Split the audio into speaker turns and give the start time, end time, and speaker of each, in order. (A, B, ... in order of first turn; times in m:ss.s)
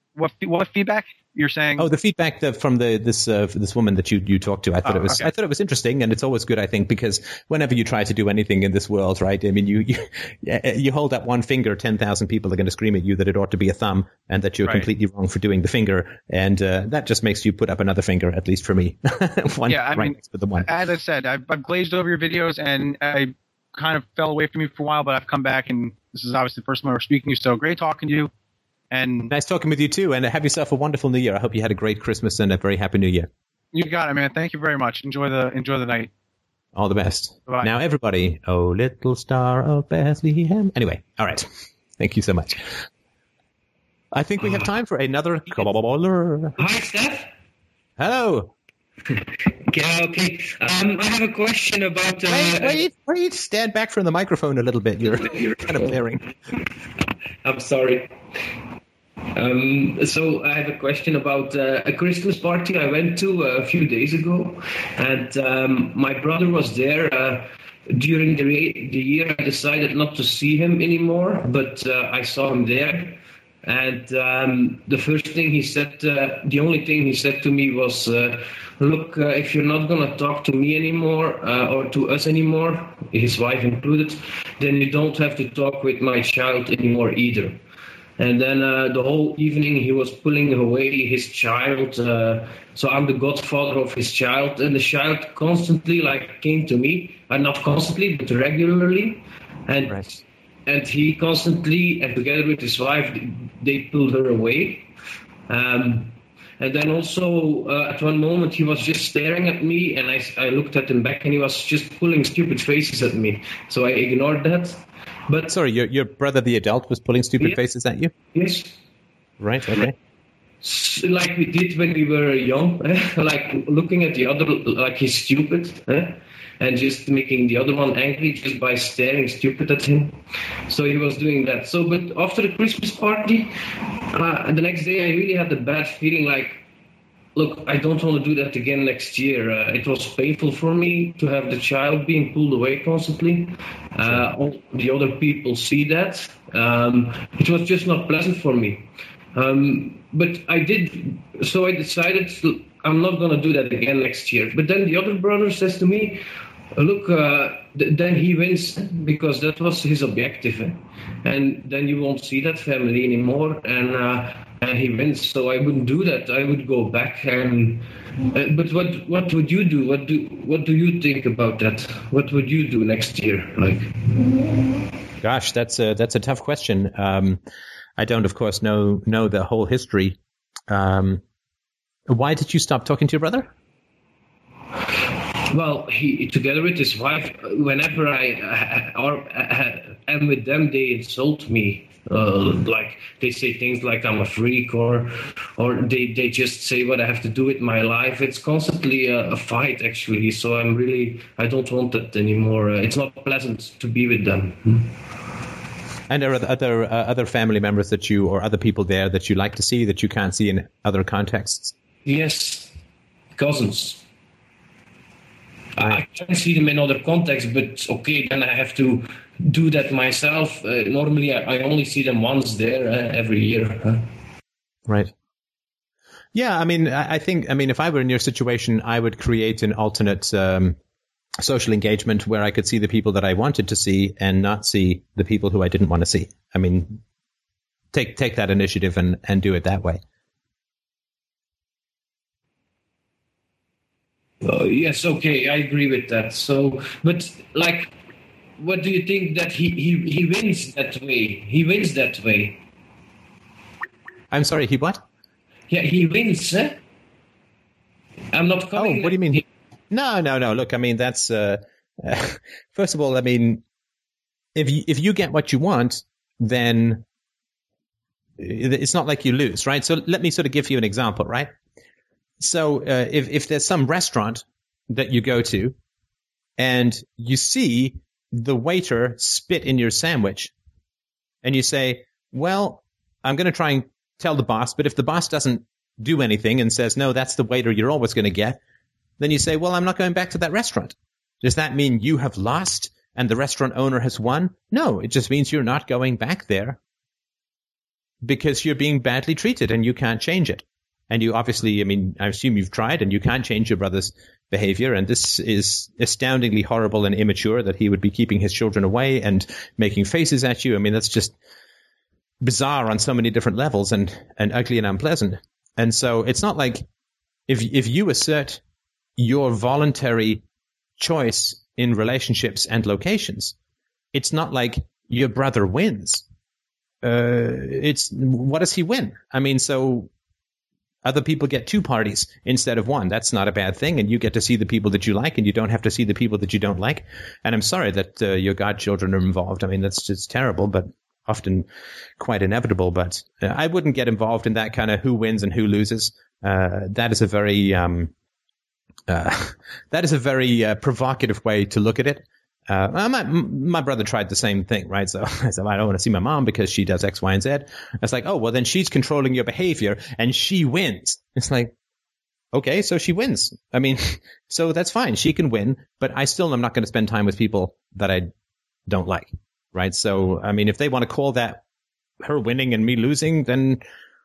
0:00.2-0:01.9 A
0:01.8-0:20.7 B
0:04.8-0:05.3 A
0:19.7-0:28.3 A
0:28.9-0:29.3 A
0:29.3-0:33.3 B
0:33.7-0:36.1 A
0:36.8-0:42.8 B
0:44.1-0:46.6 B
0:46.6-0:47.3 C
0:48.0-0:48.5 B
0:49.6-0:52.8 C
0:52.3-0:56.3 B
0:57.4-0:58.2 C
0:59.3-1:27.6 C
1:28.2-1:44.9 C
1:45.5-1:55.5 C
1:55.5-1:58.1 B
1:58.3-1:58.8 C
1:59.4-1:59.9 B
2:00.6-2:16.6 C
2:17.3-2:54.4 C
2:55.2-2:57.4 B
2:58.0-3:00.2 B
3:00.7-3:01.2 B
3:02.1-3:03.5 B
3:05.5-3:25.0 C
3:26.1-3:31.7 B
3:32.0-3:32.7 C
3:33.3-3:34.0 C
3:35.8-3:44.1 C
3:44.9-3:45.1 B
3:46.3-3:50.8 B
3:51.4-3:57.0 B
3:57.9-4:00.0 B
4:04.4-4:08.0 C
4:08.6-4:12.6 C
4:14.3-4:15.0 B
4:15.7-4:16.8 C
4:18.3-4:19.4 C
4:18.7-4:23.6 B
4:24.6-4:27.0 B
4:28.4-4:31.5 B
4:32.4-4:35.7 B
4:36.6-4:40.5 B
4:41.4-4:48.6 B
4:49.2-4:56.8 B
4:58.2-5:11.3 B
5:12.4-5:16.8 B
5:17.5-5:18.6 B
5:19.2-5:20.4 B
5:21.0-5:23.6 B
5:24.1-5:26.2 B
5:27.0-5:30.1 B
5:31.0-5:41.7 B
5:42.2-5:48.1 B
5:49.1-6:01.7 B
6:02.5-6:08.3 B
6:08.9-6:11.6 B
6:12.2-6:13.8 B